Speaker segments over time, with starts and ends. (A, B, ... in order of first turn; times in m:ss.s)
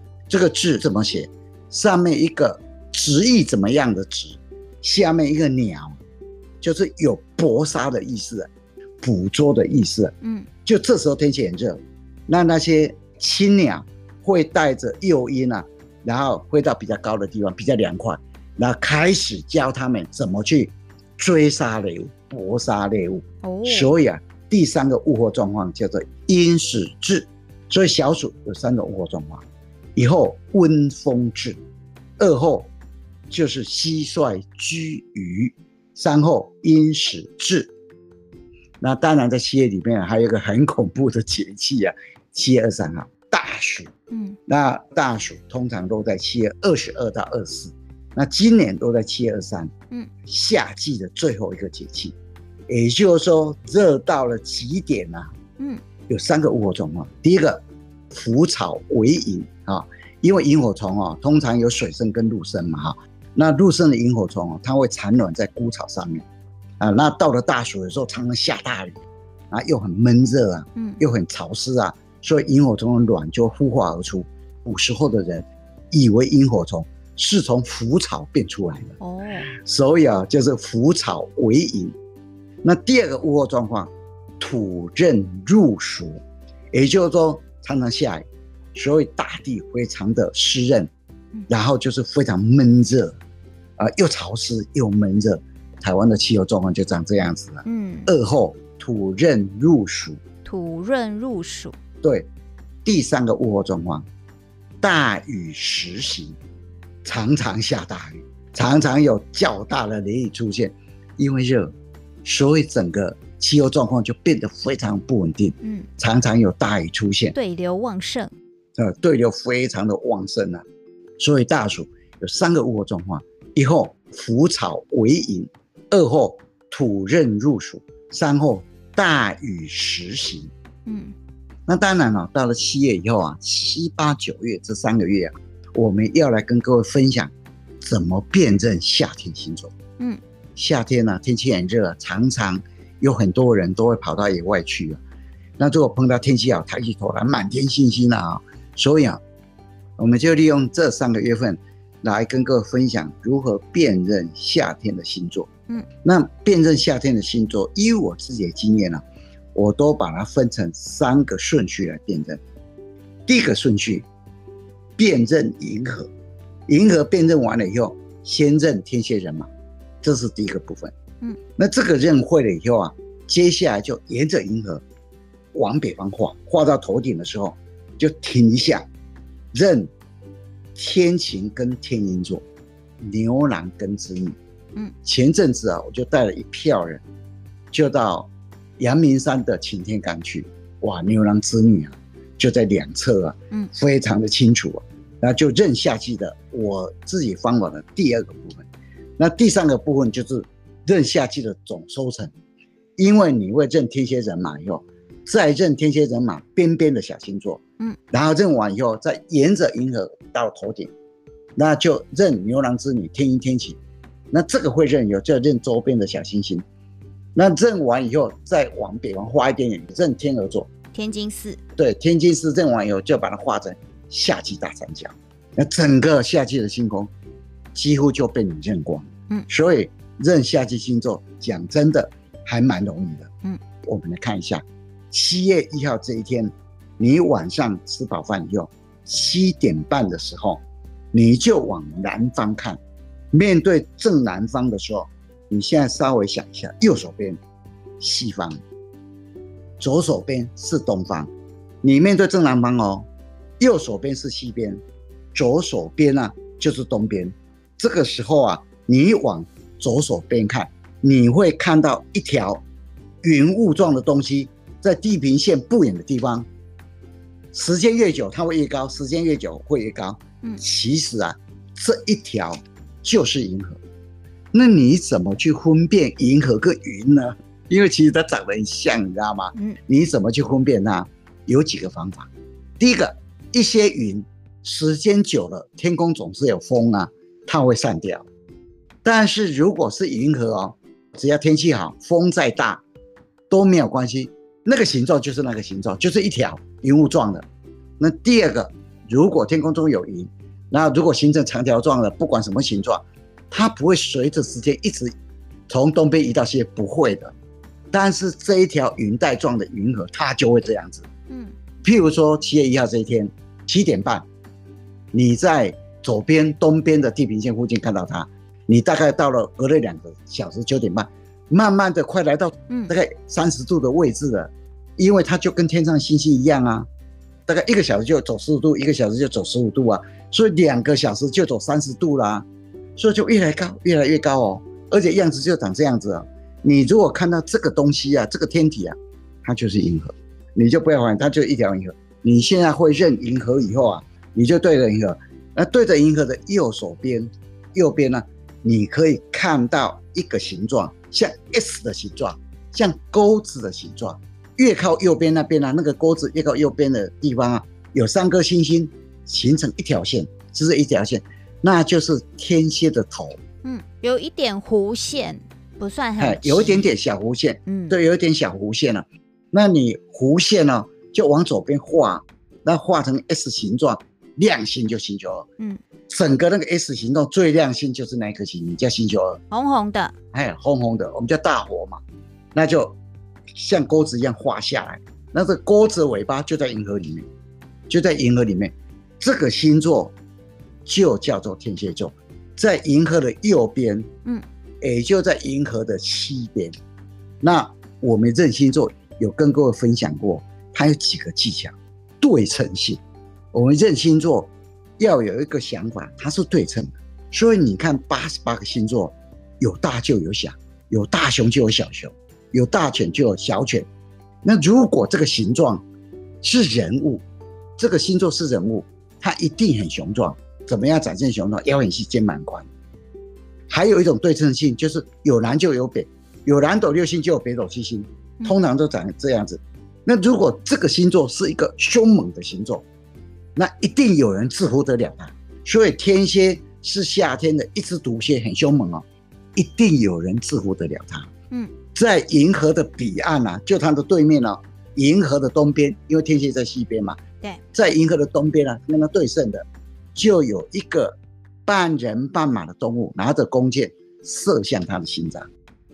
0:00.3-0:06.0 A
0:06.6-0:08.5 A
0:09.0-0:29.4 A
0:10.2-0:10.5 B
0:23.4-0:23.9 B
0:30.0-0:31.6 A
0:32.2-0:32.7 A
0:33.3-0:37.7 A
0:38.8-0:43.9 A
0:44.1-0:44.4 B
0:44.5-0:49.7 A
0:50.2-0:52.2 A
0:52.7-0:55.3 A
0:56.1-1:06.3 A
1:06.8-1:19.0 A
1:19.0-1:19.5 B
1:19.6-1:22.0 A
1:22.6-1:26.2 A
1:26.7-1:30.9 A
1:31.5-1:33.2 A
1:33.8-1:40.2 A
1:37.6-1:38.1 B
1:40.4-1:41.8 B
1:42.0-1:42.3 A
1:42.8-1:44.1 A
1:44.8-1:46.4 A
1:47.0-1:57.4 A
1:57.4-1:58.3 B
1:58.8-2:00.6 A
2:01.2-2:10.5 A
2:10.9-2:11.1 B
2:11.7-2:19.7 A
2:20.6-2:25.0 A
2:25.6-2:29.2 A
2:30.0-2:35.5 A
2:36.0-2:39.0 A
2:39.6-2:42.4 A
2:43.3-2:44.1 A
2:45.0-2:46.1 A
2:46.7-2:49.5 A
2:50.0-2:50.9 A
2:51.6-2:54.8 A
2:55.5-2:58.9 A
2:59.5-2:59.9 A
3:00.8-3:02.4 A
3:03.0-3:04.4 A
3:05.0-3:07.0 A
3:07.7-3:18.7 A
3:19.2-3:22.3 A
3:23.0-3:30.9 A
3:31.6-3:33.8 A
3:34.3-3:36.6 A
3:37.4-3:40.7 A
3:40.9-3:41.6 B
3:41.8-3:47.1 A
3:47.8-3:53.3 A
3:53.8-4:00.6 A
4:01.1-4:02.8 A
4:03.3-4:07.4 A
4:08.0-4:08.6 A
4:09.8-4:11.3 A
4:11.8-4:13.1 A
4:13.6-4:14.8 A
4:15.3-4:22.6 A
4:23.2-4:26.5 A
4:27.5-4:33.8 A
4:34.5-4:48.3 A
4:49.0-4:52.8 A
4:53.5-4:57.5 A
4:58.0-5:05.2 A
5:05.7-5:07.3 A
5:07.9-5:11.1 A
5:11.8-5:14.2 A
5:15.1-5:26.9 A
5:27.5-5:32.5 A
5:33.0-6:03.4 A
6:03.6-6:06.9 B
6:06.2-6:15.5 A
6:07.7-6:08.0 B
6:16.1-6:19.4 A
6:19.5-6:20.1 B
6:20.3-6:22.0 A
6:22.6-6:23.0 A
6:23.6-6:27.3 A
6:27.9-6:30.1 A
6:30.9-6:34.1 A
6:34.8-6:36.8 A
6:37.4-6:43.0 A
6:43.5-6:53.9 A
6:54.4-6:55.8 A
6:56.4-6:57.2 A
6:57.8-7:02.7 A
7:03.7-7:12.9 A
7:13.6-7:19.0 A
7:19.6-7:21.3 A
7:21.9-7:27.2 A
7:27.7-7:35.5 A